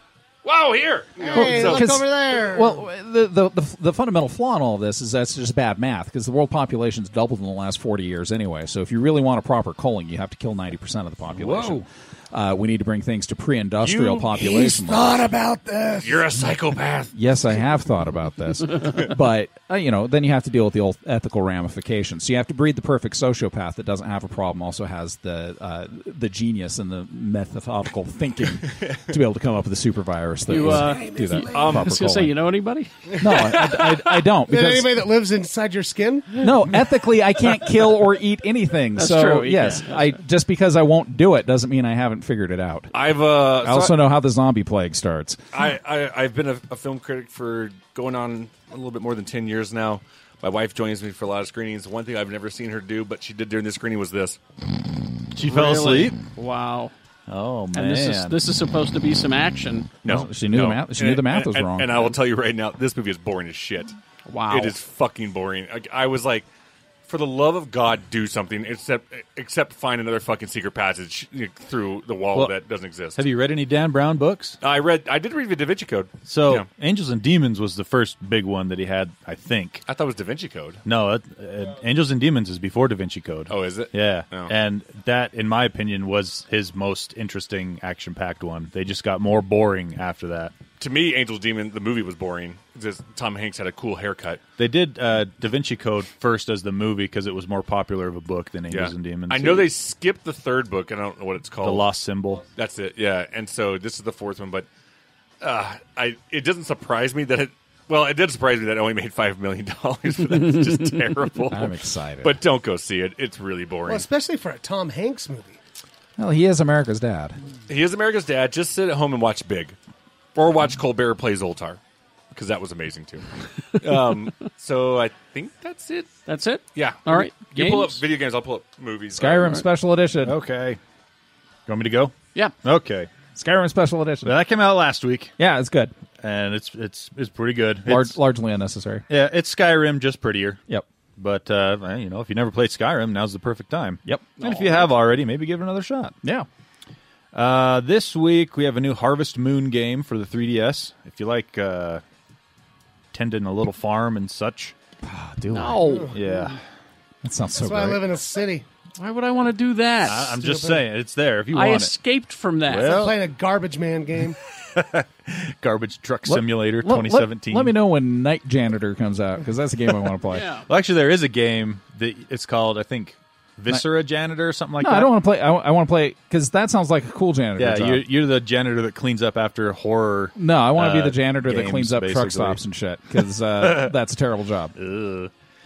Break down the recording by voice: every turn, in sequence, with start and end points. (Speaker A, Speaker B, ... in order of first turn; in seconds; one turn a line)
Speaker A: 0.4-1.9
Speaker B: 1.2-2.8
Speaker C: 1.3-15.3
Speaker D: 11.4-11.8
Speaker A: 13.8-14.4
Speaker B: 14.4-16.3
Speaker A: 16.0-17.1
Speaker C: 17.1-32.4
Speaker E: 30.5-33.1
Speaker B: 30.7-31.6
Speaker A: 31.5-31.9
Speaker C: 33.2-35.0
Speaker B: 34.5-36.4
Speaker C: 36.4-42.9
Speaker E: 39.0-39.9
Speaker A: 42.9-44.0
Speaker C: 43.6-45.4
Speaker A: 45.5-54.4
Speaker D: 55.3-56.2
Speaker E: 55.4-56.9
Speaker D: 57.3-58.4
Speaker E: 57.7-59.9
Speaker A: 60.0-64.0
Speaker C: 60.0-62.2
Speaker E: 64.3-64.8
Speaker A: 64.5-66.5
Speaker A: 67.1-73.2
Speaker D: 73.2-74.6
Speaker A: 74.6-76.7
Speaker D: 76.3-79.8
Speaker A: 79.9-80.8
Speaker D: 80.8-90.5
Speaker A: 83.5-84.5
Speaker A: 90.8-94.4
Speaker D: 94.6-99.7
Speaker A: 98.7-101.9
Speaker D: 101.6-102.4
Speaker A: 102.6-104.7
Speaker A: 105.4-114.1
Speaker C: 111.5-112.4
Speaker B: 113.9-115.6
Speaker C: 116.2-117.4
Speaker A: 117.7-119.8
Speaker A: 120.3-121.8
Speaker A: 122.3-126.2
Speaker E: 126.3-128.0
Speaker A: 126.8-129.6
Speaker C: 129.2-130.4
Speaker D: 130.2-130.8
Speaker D: 131.7-132.1
Speaker D: 132.6-133.1
Speaker C: 133.3-134.4
Speaker D: 134.2-135.3
Speaker C: 135.4-135.9
Speaker D: 136.2-138.2
Speaker C: 137.9-139.1
Speaker D: 139.1-140.6
Speaker D: 141.2-146.2
Speaker C: 144.1-144.4
Speaker E: 144.4-144.8
Speaker D: 147.3-152.0
Speaker D: 153.1-154.8
Speaker C: 155.0-156.1
Speaker E: 155.5-156.5
Speaker B: 155.8-156.1
Speaker D: 156.1-156.6
Speaker C: 157.2-158.0
Speaker B: 157.6-158.7
Speaker E: 159.0-160.4
Speaker D: 160.0-161.9
Speaker B: 160.4-160.8
Speaker E: 161.5-163.1
Speaker D: 162.7-163.2
Speaker B: 162.8-164.4
Speaker D: 164.6-167.7
Speaker C: 166.3-170.5
Speaker E: 170.3-170.7
Speaker D: 170.7-175.1
Speaker C: 174.8-178.1
Speaker D: 177.6-182.6
Speaker C: 180.4-184.8
Speaker D: 183.6-184.0
Speaker D: 184.8-185.3